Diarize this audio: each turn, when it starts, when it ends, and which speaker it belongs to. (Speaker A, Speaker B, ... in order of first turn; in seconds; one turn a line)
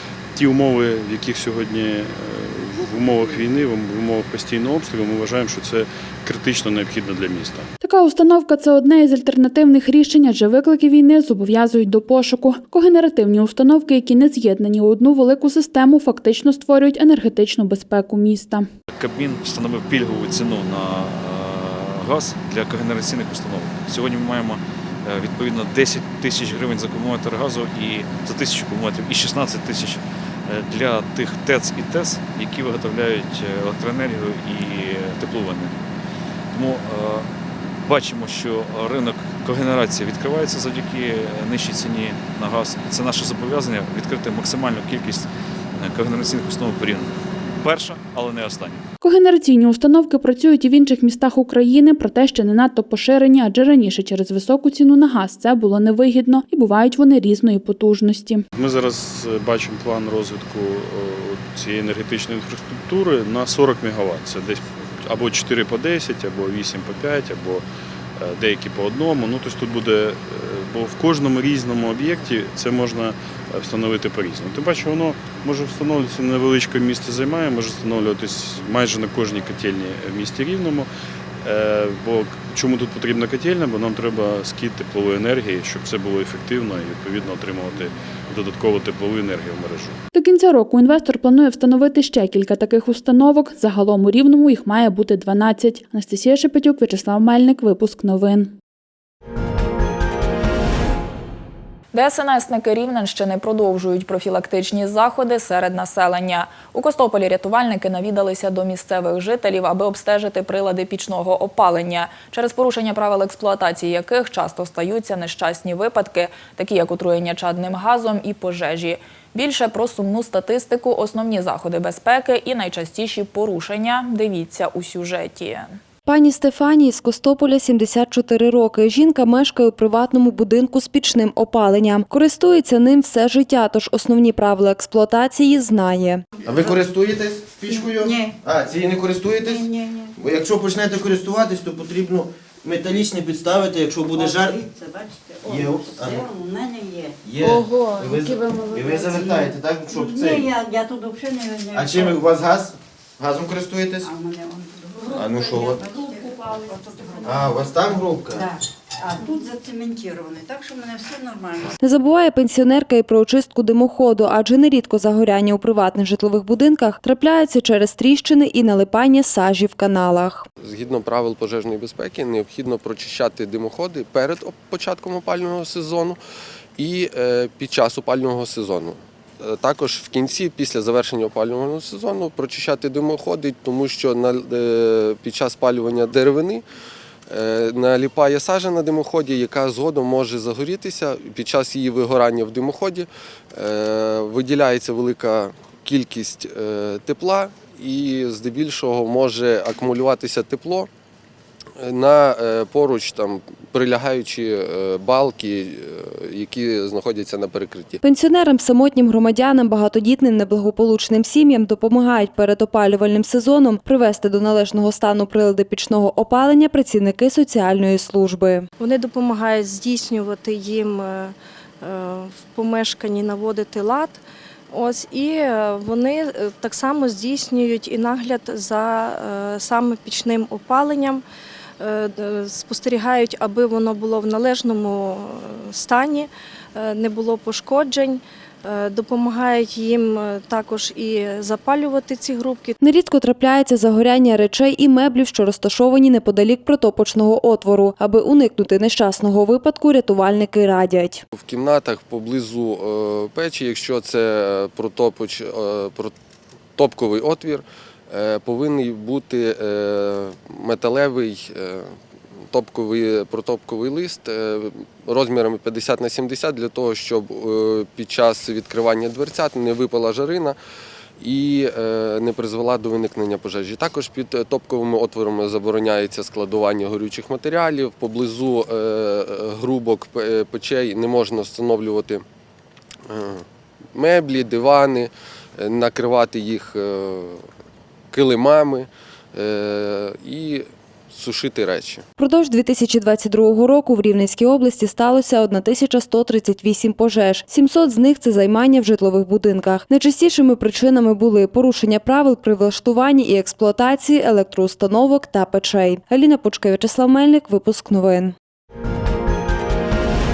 Speaker A: 0.3-7.7
Speaker B: 7.8-18.7
Speaker C: 18.9-35.8
Speaker C: 36.5-37.3
Speaker C: 37.8-48.8
Speaker B: 49.0-58.4
Speaker A: 58.5-67.7
Speaker A: 68.2-80.9
Speaker A: 81.4-90.0
Speaker B: 90.1-98.5
Speaker D: 101.9-125.8
Speaker E: 126.0-136.2
Speaker F: 136.4-144.7
Speaker G: 137.7-138.4
Speaker G: 139.4-140.1
Speaker G: 144.1-152.2
Speaker F: 145.4-146.3
Speaker F: 147.2-150.6
Speaker F: 151.7-154.1
Speaker G: 154.0-157.7
Speaker F: 155.0-155.9
Speaker F: 157.2-158.5
Speaker G: 158.3-161.7
Speaker E: 161.8-170.4
Speaker H: 170.6-176.2
Speaker H: 176.8-186.6
Speaker H: 187.3-200.9
Speaker H: 201.8-208.0
Speaker E: 208.0-218.7
Speaker I: 218.8-231.2
Speaker I: 231.8-242.7
Speaker E: 242.8-251.2
Speaker H: 251.3-256.1
Speaker H: 256.8-261.9
Speaker H: 262.5-270.6
Speaker H: 271.2-282.2
Speaker H: 283.1-287.4
Speaker H: 288.1-292.0
Speaker E: 292.2-308.3